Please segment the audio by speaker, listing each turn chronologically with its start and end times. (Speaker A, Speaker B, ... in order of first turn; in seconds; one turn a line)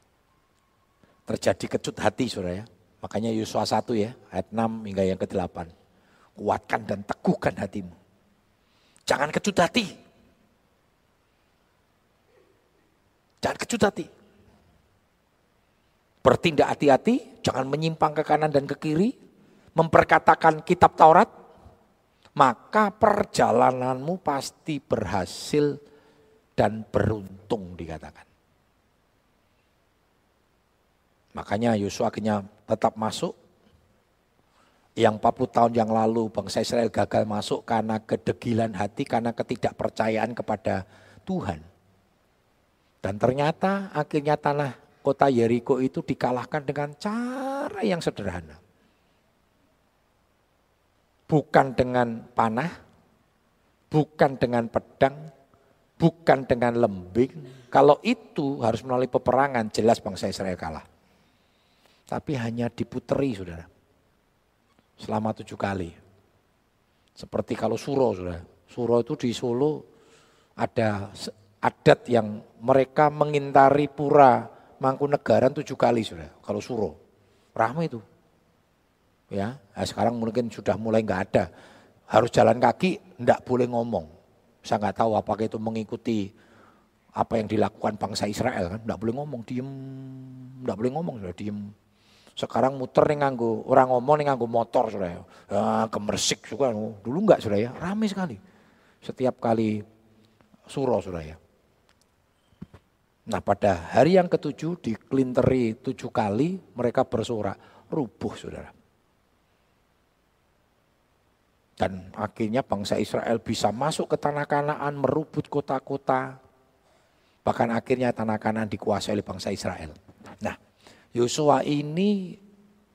Speaker A: 1.3-5.7
Speaker A: 6.4-8.0
Speaker A: 9.1-9.9
Speaker A: 13.4-14.1
Speaker A: 16.2-19.1
Speaker A: 19.8-21.3
Speaker A: 22.4-25.7
Speaker A: 26.6-28.3
Speaker A: 31.4-33.3
Speaker A: 35.0-41.6
Speaker A: 43.0-48.6
Speaker A: 51.3-52.7
Speaker A: 53.9-55.2
Speaker A: 56.0-60.8
Speaker A: 62.1-63.7
Speaker A: 65.0-66.0
Speaker A: 67.2-69.8
Speaker A: 70.6-77.0
Speaker A: 77.6-78.0
Speaker A: 79.3-81.5
Speaker A: 82.1-84.1
Speaker A: 84.7-86.3
Speaker A: 87.2-91.7
Speaker A: 92.4-98.4
Speaker A: 99.0-99.8
Speaker A: 100.7-101.4
Speaker A: 103.3-108.7
Speaker A: 111.8-116.3
Speaker A: 117.5-120.6
Speaker A: 121.2-122.4